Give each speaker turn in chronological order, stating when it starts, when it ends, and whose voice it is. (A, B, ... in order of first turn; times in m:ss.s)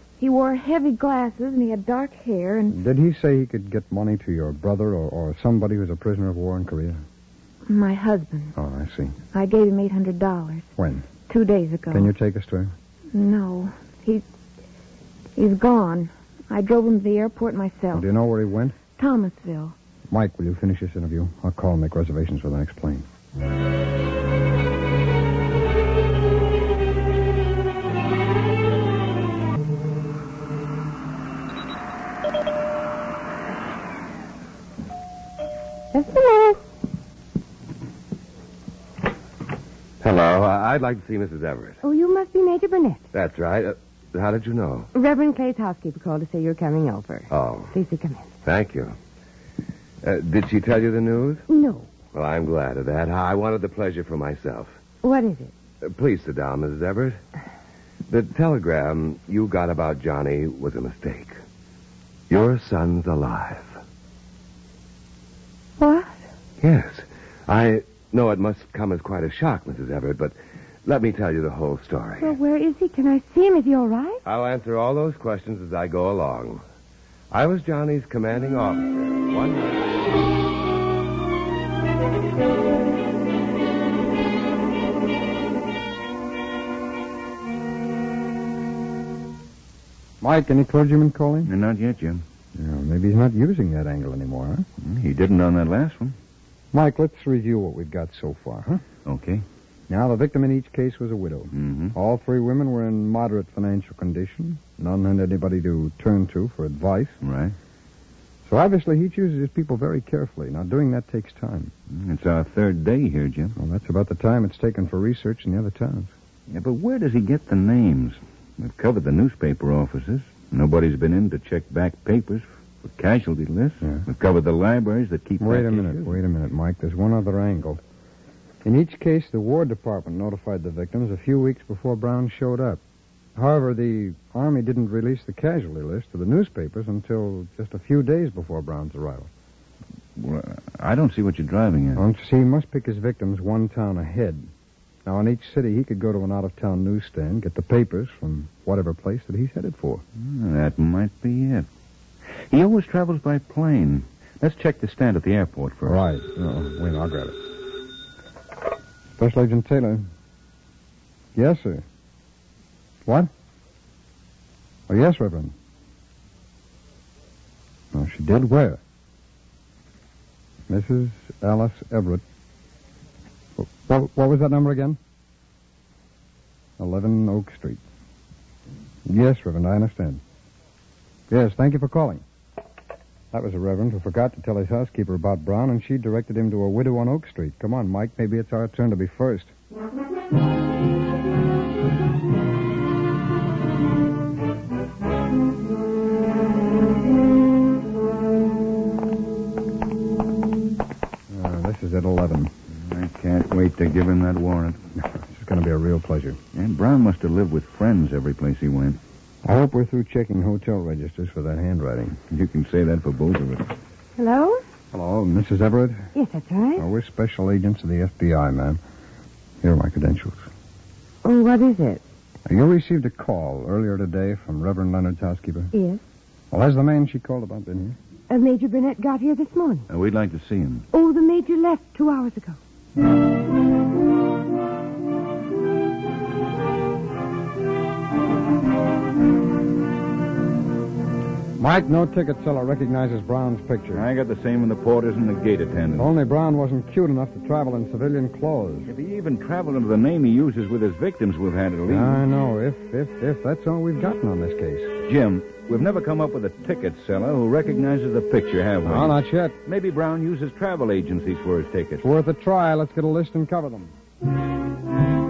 0:00.2-0:02.8 A
0:02.7-0:07.0 B
0:07.7-0:08.5 A
0:08.6-0:09.2 B
0:09.3-0:10.7 A
0:10.8-0:11.0 B
0:11.3-0:12.1 A
0:11.9-0:12.7 B
0:13.1-0:14.2 A
0:15.4-0:18.0 A
0:17.9-0:18.8 B
0:19.0-0:19.8 A
0:20.1-0:23.0 B
0:35.9-0:36.6 C
0:40.0-0:41.8 D
0:41.8-0:43.0 C
0:43.1-0:44.9 D
0:44.9-0:48.3 C
0:47.3-0:47.7 D
0:48.4-0:48.9 D
0:50.0-0:51.4 D
0:51.5-0:51.9 C
0:52.1-0:54.8 D
0:55.0-0:55.5 C
0:55.8-0:57.2 D
0:58.1-1:01.3 D
1:02.3-1:03.8 D
1:05.8-1:06.2 C
1:06.6-1:10.3 D
1:10.8-1:12.3 D
1:12.2-1:14.2 C
1:14.2-1:16.6 D
1:17.3-1:20.0 D
1:30.2-1:31.5 B
1:31.4-1:32.2 E
1:32.5-1:34.7 B
1:34.8-1:36.2 E
1:36.7-1:38.8 B
1:39.0-1:39.4 E
1:39.9-1:47.2 B
1:41.5-1:41.9 E
1:47.2-1:47.5 E
1:48.4-1:51.7 B
1:51.9-1:53.6 E
1:53.6-1:56.1 B
1:56.5-2:06.1 E
2:05.4-2:07.8 B
2:08.6-2:12.8 B
2:13.4-2:19.3 B
2:20.2-2:22.0 E
2:22.0-2:24.5 B
2:25.0-2:30.0 B
2:30.2-2:31.7 E
2:32.5-2:36.0 E
2:35.8-2:37.4 B
2:39.2-2:40.1 B
2:41.3-2:41.8 B
2:43.0-2:43.3 B
2:44.9-2:45.5 B
2:47.9-2:48.8 B
2:50.7-2:52.2 B
2:53.6-2:55.0 B
2:56.8-2:57.8 B
2:59.0-3:00.2 B
3:01.3-3:02.2 B
3:03.3-3:09.5 B
3:21.3-3:22.5 B
3:22.7-3:24.8 E
3:25.0-3:26.4 B
3:26.5-3:29.0 E
3:29.4-3:32.2 B
3:32.2-3:33.8 E
3:34.2-3:34.6 C
3:34.9-3:36.1 B
3:36.1-3:36.8 C
3:36.8-3:38.8 B
3:39.6-3:40.5 B
3:41.2-3:42.0 C
3:42.4-3:45.7 B
3:45.7-3:46.0 C
3:46.5-3:48.0 B
3:48.3-3:49.9 C
3:49.9-3:50.8 E
3:50.9-3:52.6 C
4:01.6-4:04.0 B
4:03.9-4:06.1 E
4:06.0-4:08.9 B
4:08.9-4:12.2 E
4:11.9-4:14.9 B
4:15.1-4:22.0 E
4:18.8-4:19.6 B
4:22.0-4:23.9 B